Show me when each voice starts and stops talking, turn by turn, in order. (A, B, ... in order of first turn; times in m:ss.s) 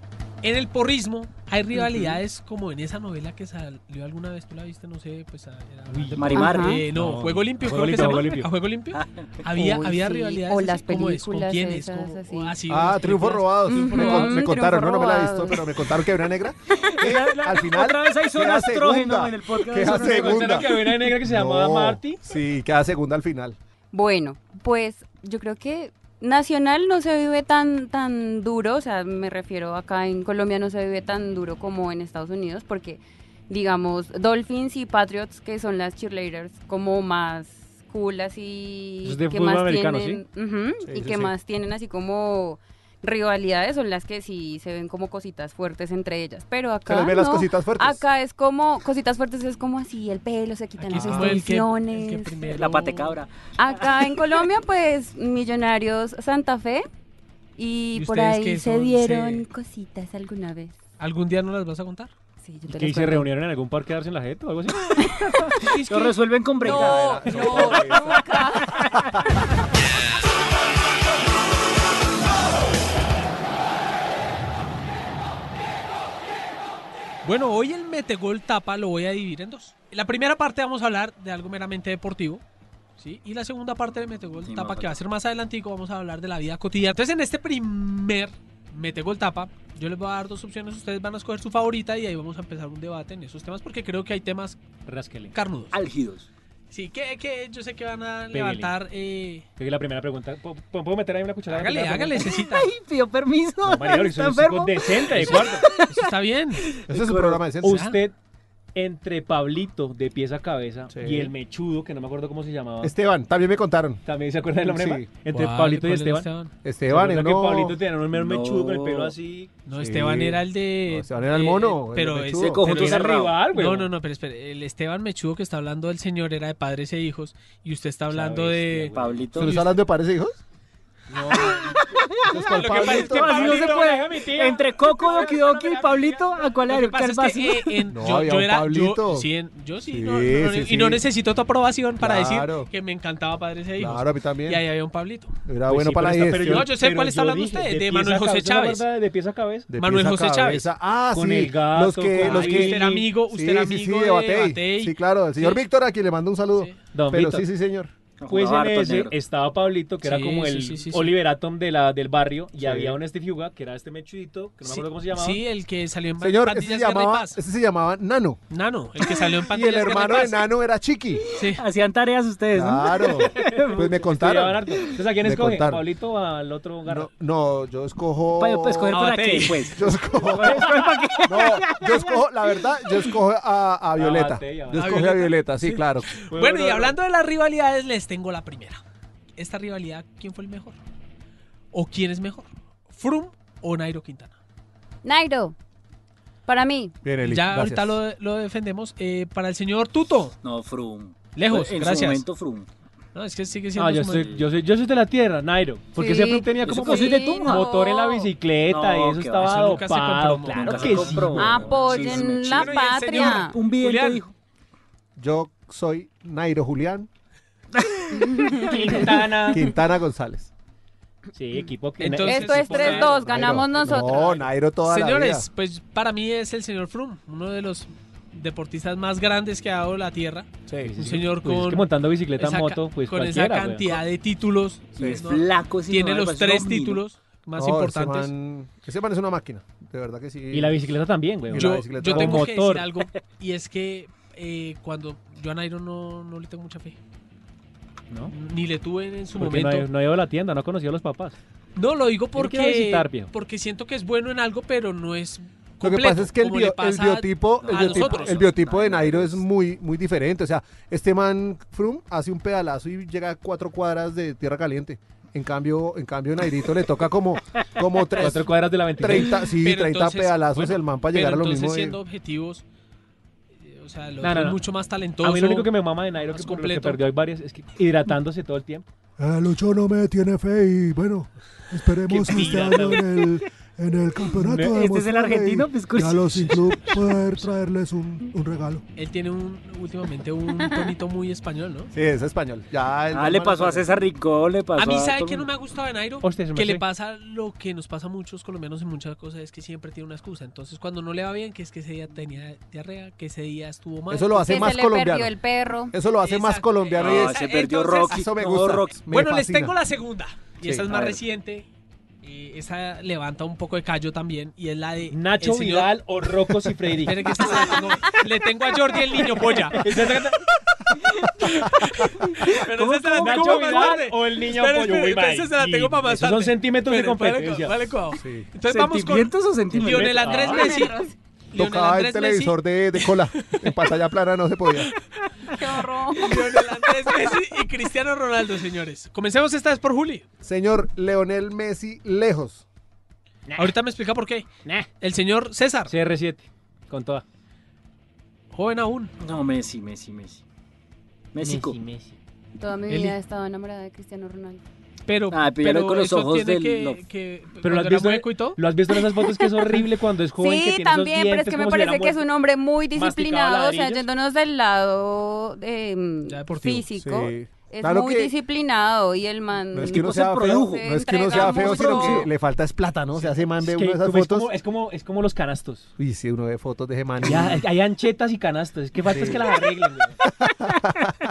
0:00.4-0:14.4 A
0:05.9-0:08.5 B
0:06.2-0:06.8 C
0:06.3-0:06.8 D
0:08.9-0:09.5 C
0:09.6-0:12.5 D
0:12.7-0:23.6 E
0:13.7-0:15.6 D
0:16.8-0:20.8 C
0:19.8-0:22.2 B
0:23.9-0:52.5 D
0:39.0-0:40.2 B
0:40.8-0:41.3 E
0:46.8-0:48.0 E
0:50.8-0:53.2 A
0:50.9-0:51.4 E
0:52.5-0:54.0 C
0:53.6-0:56.8 D
0:57.6-1:00.8 D
0:57.9-0:59.4 A
1:01.0-1:02.1 A
1:02.4-1:03.3 D
1:02.7-1:05.1 B
1:05.8-1:07.6 C
1:05.9-1:06.1 A
1:06.6-1:08.3 E
1:06.6-1:09.0 D
1:07.3-1:07.8 B
1:08.7-1:09.3 C
1:08.9-1:09.4 E
1:17.2-1:22.4 A
1:23.0-1:34.6 A
1:24.4-1:25.0 C
1:34.8-1:35.3 B
1:35.3-1:35.7 A
1:35.7-1:36.3 C
1:36.7-1:39.5 A
1:38.3-1:38.7 B
1:39.6-1:42.2 B
1:41.5-1:42.7 A
1:42.2-1:46.0 C
1:43.6-1:45.6 B
1:45.2-1:46.7 A
1:46.7-1:47.4 C
1:46.9-1:47.9 E
1:47.6-1:48.1 B
1:47.6-1:48.0 A
1:48.7-1:52.9 B
1:50.9-1:51.3 E
1:52.8-1:54.0 E
1:54.0-1:56.3 B
1:54.6-1:55.1 E
1:55.3-1:56.5 A
1:56.6-1:57.8 E
1:56.9-1:59.5 B
1:58.1-1:59.1 C
1:59.6-2:09.8 A
1:59.8-2:02.6 E
2:02.4-2:03.4 C
2:02.6-2:03.9 B
2:08.1-2:09.2 B
2:08.9-2:09.6 C
2:09.4-2:10.4 E
2:11.1-2:11.8 B
2:11.1-2:14.0 A
2:11.4-2:17.8 C
2:12.2-2:13.3 E
2:12.7-2:16.4 B
2:16.7-2:25.3 A
2:17.9-2:19.3 E
2:19.8-2:21.0 E
2:22.0-2:22.7 E
2:23.8-2:24.6 E
2:25.4-2:26.7 E
2:25.7-2:29.7 B
2:26.4-2:28.8 A
2:29.7-2:37.9 E
2:29.8-2:30.7 A
2:31.1-2:33.1 B
2:32.2-2:35.6 A
2:36.9-2:37.5 B
2:38.2-2:39.1 C
2:38.3-2:45.4 B
2:40.0-2:41.2 A
2:42.6-2:43.0 E
2:44.6-2:47.4 A
2:46.2-2:48.4 E
2:48.5-2:50.4 A
2:49.5-2:51.2 E
2:51.4-2:51.6 A
2:51.4-2:53.8 C
2:52.5-2:54.6 E
2:53.3-2:57.1 B
2:55.2-2:55.8 E
2:56.8-2:59.0 E
2:58.3-3:03.1 C
2:58.9-2:59.7 A
2:59.7-3:00.7 E
3:00.2-3:01.0 B
3:01.2-3:06.1 E
3:04.0-3:05.0 B
3:04.7-3:08.8 A
3:06.3-3:07.0 B
3:09.4-3:10.8 A
3:11.7-3:14.4 A
3:15.0-3:15.5 D
3:16.4-3:16.9 D
3:17.0-3:18.0 E
3:17.2-3:20.3 A
3:20.4-3:22.7 C
3:21.4-3:22.2 A
3:23.1-3:24.4 A
3:23.8-3:32.0 B
3:26.0-3:28.3 D
3:26.6-3:27.7 C
3:28.6-3:29.9 C
3:29.4-3:34.2 A
3:30.5-3:34.3 C
3:31.4-3:33.6 D
3:35.2-3:37.1 E
3:37.9-3:38.2 C
3:38.4-3:38.6 D
3:38.6-3:39.7 B
3:39.5-3:40.5 E
3:41.3-3:43.6 B
3:42.0-3:43.3 A
3:42.2-3:44.4 D
3:43.2-3:45.5 E
3:43.8-3:44.2 A
3:44.8-3:50.5 A
3:50.7-3:51.0 E
3:50.8-3:54.0 B
3:51.0-3:58.3 A
3:55.0-3:57.0 C
3:57.6-4:00.9 E
4:00.5-4:02.9 B
4:01.5-4:02.4 E
4:01.5-4:07.0 A
4:08.3-4:09.9 A
4:09.4-4:11.4 B
4:11.8-4:18.5 A
4:12.4-4:13.3 B
4:15.8-4:32.0 E
4:17.6-4:19.4 C
4:28.2-4:29.4 B
4:29.4-4:32.6 A
4:33.6-4:37.0 A
4:34.2-4:34.6 B
4:35.2-4:38.8 B
4:39.2-4:48.8 E
4:42.1-4:43.0 B
4:42.1-4:43.0 A
4:44.4-4:44.8 B
4:44.6-4:46.8 C
4:49.0-4:51.9 A
4:51.9-4:53.9 E
4:53.1-4:55.5 C
4:54.8-5:04.8 A
4:56.2-4:56.8 B
5:04.1-5:05.3 E
5:04.5-5:05.9 D
5:05.9-5:07.4 E
5:06.2-5:08.2 A
5:06.9-5:09.0 C
5:08.1-5:09.8 E
5:09.1-5:11.7 A
5:10.9-5:11.2 C
5:12.2-5:16.0 A
5:15.1-5:17.5 B
5:17.0-5:19.9 A
5:19.7-5:20.4 B
5:21.1-5:21.7 C
5:21.7-5:31.0 A
5:22.3-5:23.8 C
5:23.1-5:27.8 B
5:28.1-5:28.5 E
5:28.7-5:30.5 C
5:29.8-5:30.7 B
5:30.3-5:31.1 D
5:31.5-5:33.7 A
5:31.5-5:34.9 E
5:35.5-5:36.4 D
5:36.2-5:40.2 A
5:40.4-5:42.6 E
5:43.5-5:43.7 B
5:43.6-5:44.4 A
5:45.0-5:45.9 A
5:45.9-5:47.2 B
5:48.5-5:49.1 A
5:49.2-5:50.4 C
5:51.3-5:51.8 C
5:51.4-5:52.2 B
5:52.6-5:54.6 D
5:52.9-5:53.2 A
5:55.0-5:58.6 A
5:55.3-5:57.0 C
5:57.6-6:02.2 B
6:00.4-6:12.3 D
6:02.9-6:04.1 B
6:06.3-6:06.8 A
6:06.7-6:08.3 E
6:09.7-6:14.5 E
6:09.9-6:12.3 C
6:13.6-6:15.9 B
6:16.0-6:17.6 E
6:17.2-6:20.2 B
6:19.0-6:19.5 E
6:20.4-6:21.1 E